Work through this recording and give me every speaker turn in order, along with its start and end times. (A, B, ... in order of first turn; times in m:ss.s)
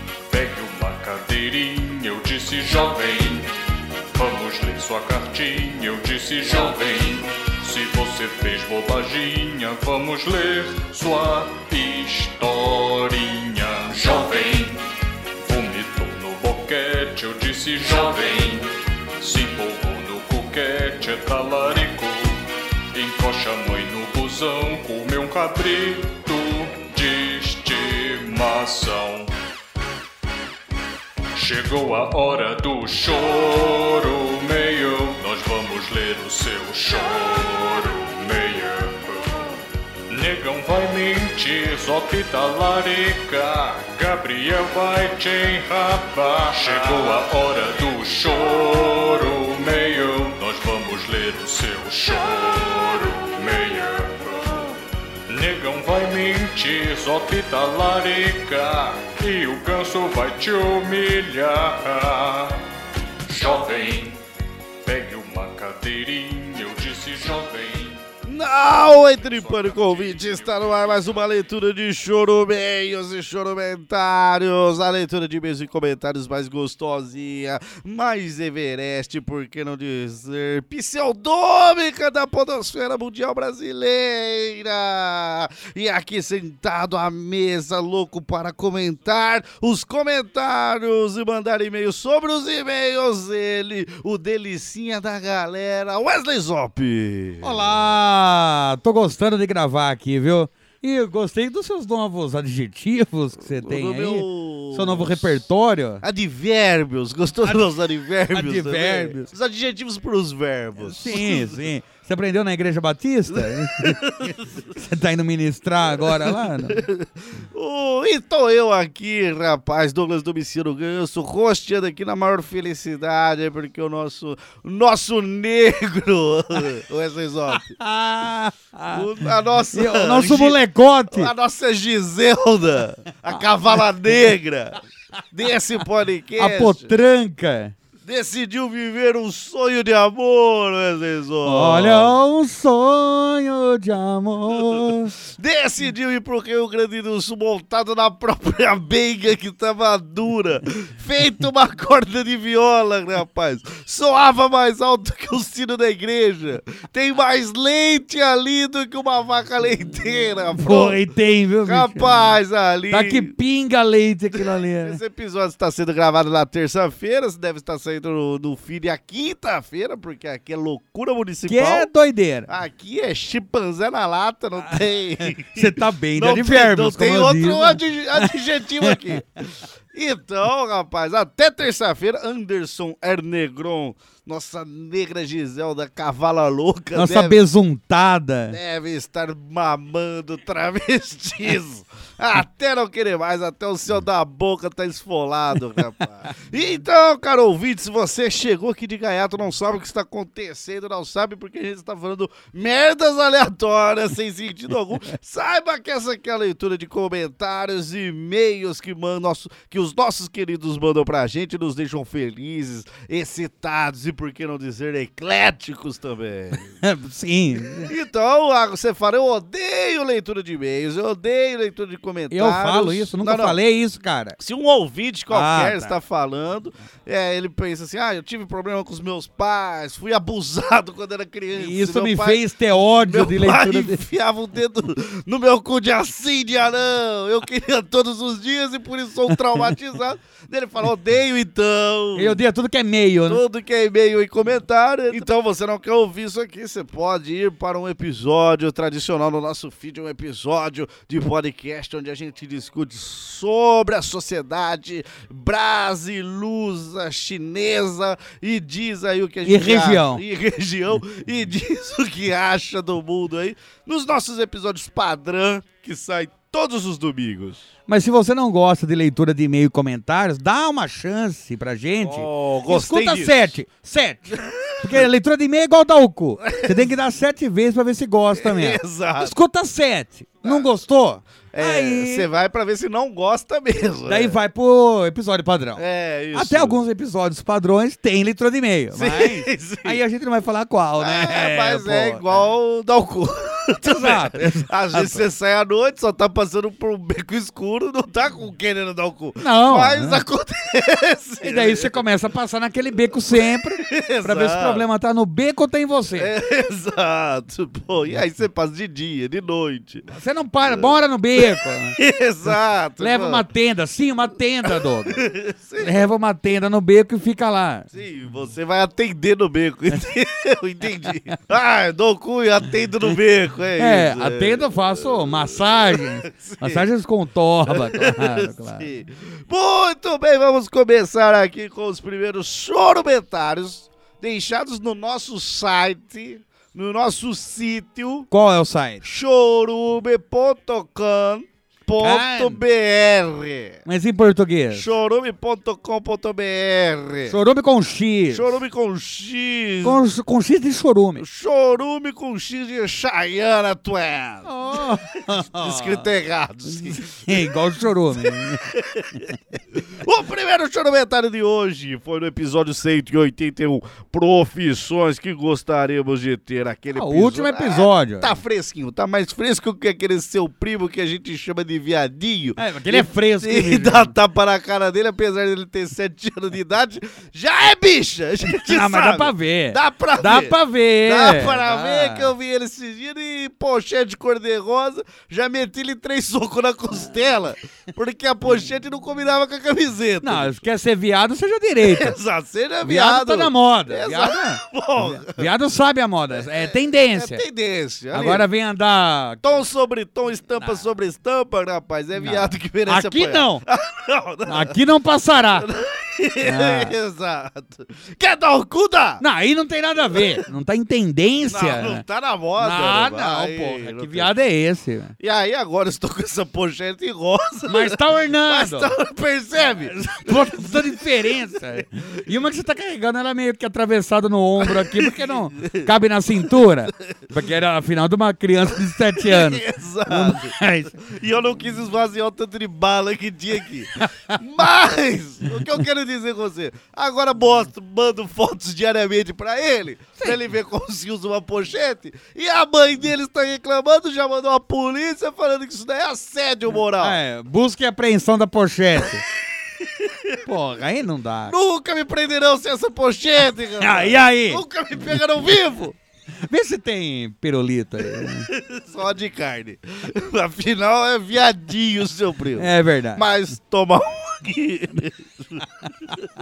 0:00.3-0:03.5 A
0:04.1-0:14.8 A
0:15.4-0:29.3 A
0:31.3-0:39.6 A
0:40.1-1:02.6 A
1:03.3-1:04.2 A
1:04.8-1:08.0 A
1:08.3-1:37.7 B
1:08.7-1:11.1 A
1:37.4-1:46.0 C
1:43.5-1:45.4 B
1:46.0-1:51.6 B
1:48.3-1:49.3 C
1:50.8-1:54.0 C
1:53.3-1:54.8 B
1:54.7-1:56.8 C
1:55.9-2:07.8 B
2:07.5-2:11.3 C
2:08.9-2:10.6 B
2:11.1-2:14.8 B
2:15.3-2:16.9 B
2:16.4-2:17.7 C
2:18.0-2:22.2 B
2:21.4-2:25.2 C
2:24.5-2:41.0 B
2:40.6-2:42.2 C
2:41.6-2:43.4 B
2:42.9-2:45.0 C
2:44.3-2:51.9 B
2:51.5-2:52.5 C
2:52.5-3:07.4 B
2:55.4-2:59.2 C
3:07.0-3:08.6 C
3:08.5-3:36.6 B
3:36.5-3:37.9 C
3:37.8-3:43.6 B
3:42.3-3:44.4 C
3:44.4-3:52.4 B
3:45.3-3:45.9 C
3:51.6-3:54.0 C
3:53.0-4:02.4 B
4:02.2-4:03.4 C
4:03.3-4:27.6 B
4:19.4-4:20.2 C
4:27.9-4:42.3 C
4:32.0-4:33.5 B
4:34.3-4:35.1 B
4:36.5-4:36.9 B
4:38.3-4:39.3 B
4:40.4-4:40.7 B
4:41.5-4:44.4 B
4:44.1-4:45.8 C
4:45.8-4:46.8 B
4:46.3-4:52.5 C
4:48.9-4:50.0 B
4:51.0-5:02.0 B
4:53.9-4:55.2 C
4:59.4-5:00.2 C
5:01.4-5:06.3 C
5:03.3-5:04.9 B
5:06.2-5:10.0 B
5:10.1-5:12.0 C
5:10.6-5:13.4 B
5:13.0-5:15.2 C
5:14.7-5:16.1 B
5:15.8-5:17.9 C
5:17.9-5:26.9 B
5:21.0-5:21.4 C
5:23.8-5:28.9 C
5:27.7-5:38.3 B
5:38.3-5:39.0 C
5:39.0-5:43.8 B
5:42.0-5:42.6 C
5:43.9-5:44.9 C
5:44.7-5:47.4 B
5:47.3-5:48.5 C
5:48.3-5:50.0 B
5:49.8-5:51.2 C
5:51.2-5:54.5 B
5:54.4-5:56.1 C
5:55.5-5:57.5 B
5:56.7-5:58.7 C
5:58.2-6:30.6 B
6:07.0-6:08.4 C
6:12.6-6:14.1 C
6:18.7-6:22.3 C
6:30.2-6:32.2 C
6:31.8-6:35.5 B
6:32.8-6:37.4 C
6:36.4-6:38.5 B
6:38.1-6:39.6 C
6:39.4-6:44.8 B
6:42.2-6:43.6 C
6:44.5-6:45.7 C
6:45.5-6:49.2 B
6:46.4-6:46.9 C
6:49.2-6:52.0 C
6:51.5-6:54.3 B
6:52.6-6:55.2 C
6:55.2-7:01.8 B
6:57.7-6:58.9 C
6:59.6-7:11.0 C
7:04.6-7:05.9 B
7:09.2-7:27.2 B
7:14.0-7:14.4 C
7:27.0-7:29.2 C
7:29.8-7:30.4 B
7:30.4-7:31.6 C
7:31.5-7:36.0 B
7:33.8-7:34.6 C
7:36.5-7:38.5 C
7:38.2-7:46.3 B
7:42.6-7:43.2 C